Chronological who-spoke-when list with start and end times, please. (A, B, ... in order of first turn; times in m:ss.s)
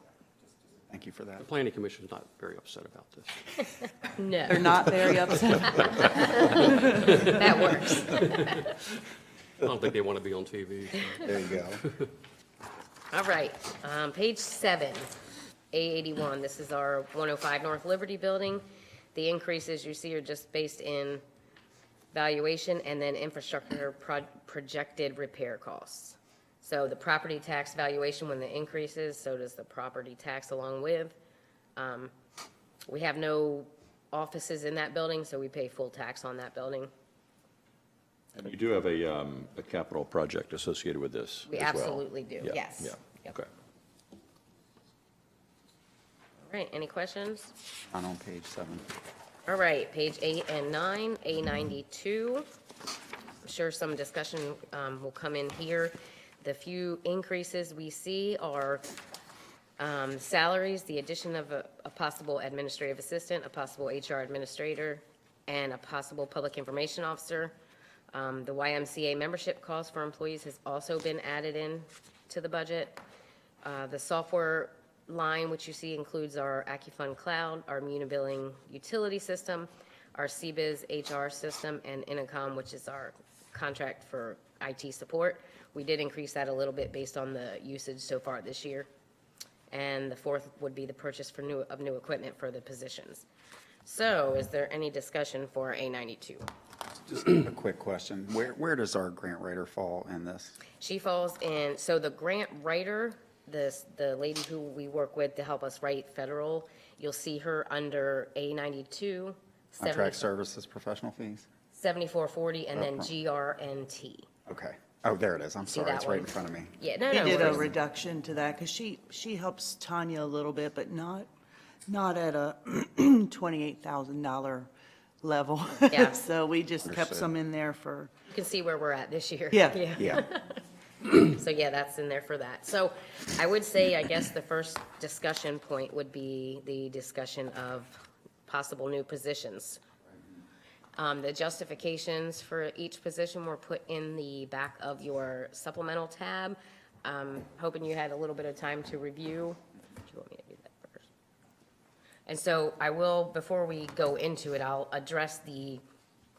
0:00.9-0:01.4 A
0:01.4-0:03.9 B
0:04.2-0:08.7 C
0:04.5-0:05.8 D
0:05.6-0:08.8 B
0:06.4-0:07.2 E
0:09.6-0:12.0 B
0:11.2-0:11.8 A
0:13.1-0:15.1 C
0:15.7-0:21.2 C
0:22.1-0:31.2 C
0:31.8-0:32.1 C
0:32.9-0:36.9 C
0:38.4-0:43.5 E
0:41.5-0:43.3 C
0:46.4-0:47.5 C
0:47.9-0:48.9 A
0:49.5-0:52.5 C
0:53.4-0:58.8 C
0:59.8-1:07.6 C
1:08.1-1:13.0 C
1:13.6-1:28.9 C
1:29.7-1:33.3 C
1:33.8-1:36.4 C
1:37.1-1:40.6 A
1:40.8-1:50.3 C
1:49.8-1:51.5 A
1:51.7-1:54.3 C
1:52.7-1:53.1 A
1:54.5-1:57.6 A
1:55.7-1:57.7 C
1:57.2-2:01.3 D
2:01.9-2:04.7 D
2:05.2-2:08.1 D
2:05.9-2:06.2 C
2:06.8-2:07.2 A
2:08.3-2:19.8 C
2:09.5-2:09.8 D
2:10.0-2:10.2 A
2:21.0-2:31.1 C
2:32.3-2:35.8 C